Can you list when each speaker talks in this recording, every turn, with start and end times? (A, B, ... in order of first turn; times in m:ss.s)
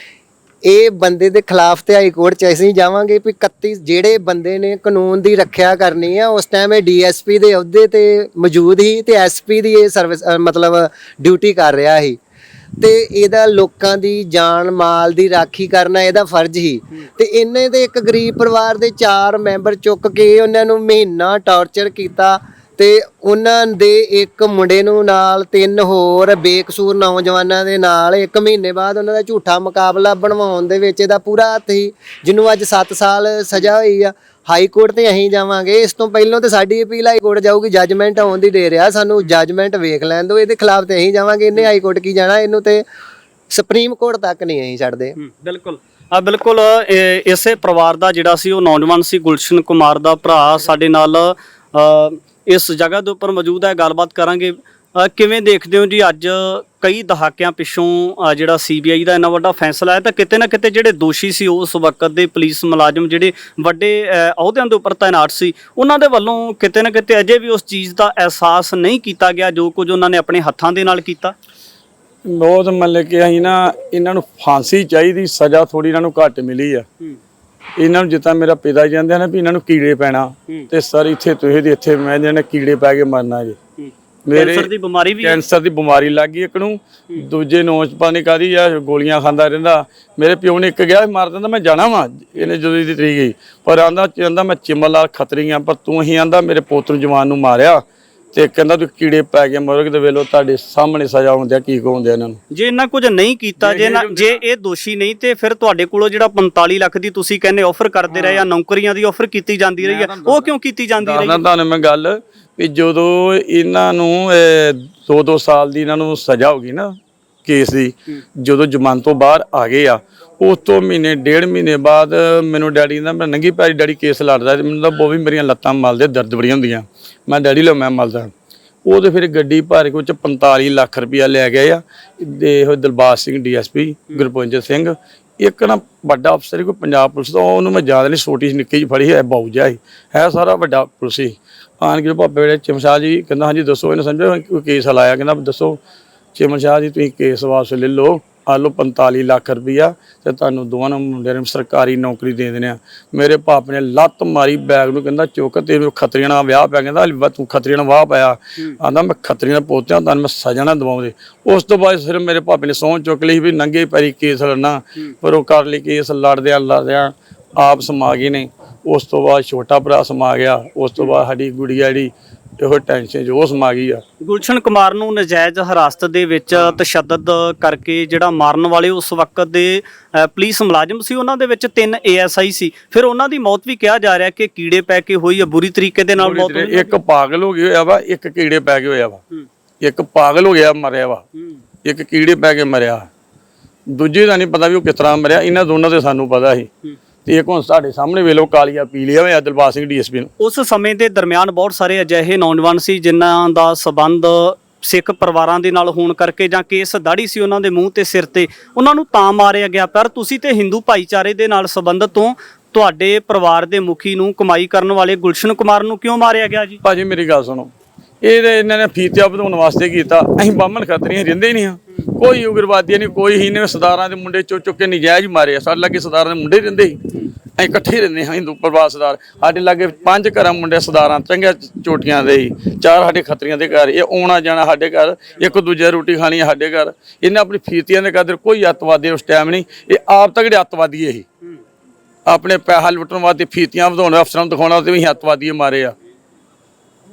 0:00.7-0:12.2 A
0:12.8-0:42.8 A
0:43.5-0:45.2 A
0:45.2-1:11.3 B
1:12.2-1:16.9 C
1:17.8-1:23.6 C
1:23.8-1:25.4 B
1:24.3-1:24.7 C
1:25.2-1:42.4 C
1:42.5-1:51.4 B
1:43.6-1:44.4 C
1:48.1-1:48.5 C
1:49.8-2:08.3 C
2:08.9-2:25.8 C
2:26.4-2:54.0 C
2:54.2-3:06.9 B
3:06.2-3:09.2 C
3:09.8-3:11.2 C
3:11.8-3:13.1 C
3:13.9-3:16.7 C
3:17.2-3:20.3 C
3:20.4-3:36.8 B
3:36.8-3:37.7 C
3:38.2-3:47.0 C
3:47.6-4:01.2 C
4:02.3-4:06.0 C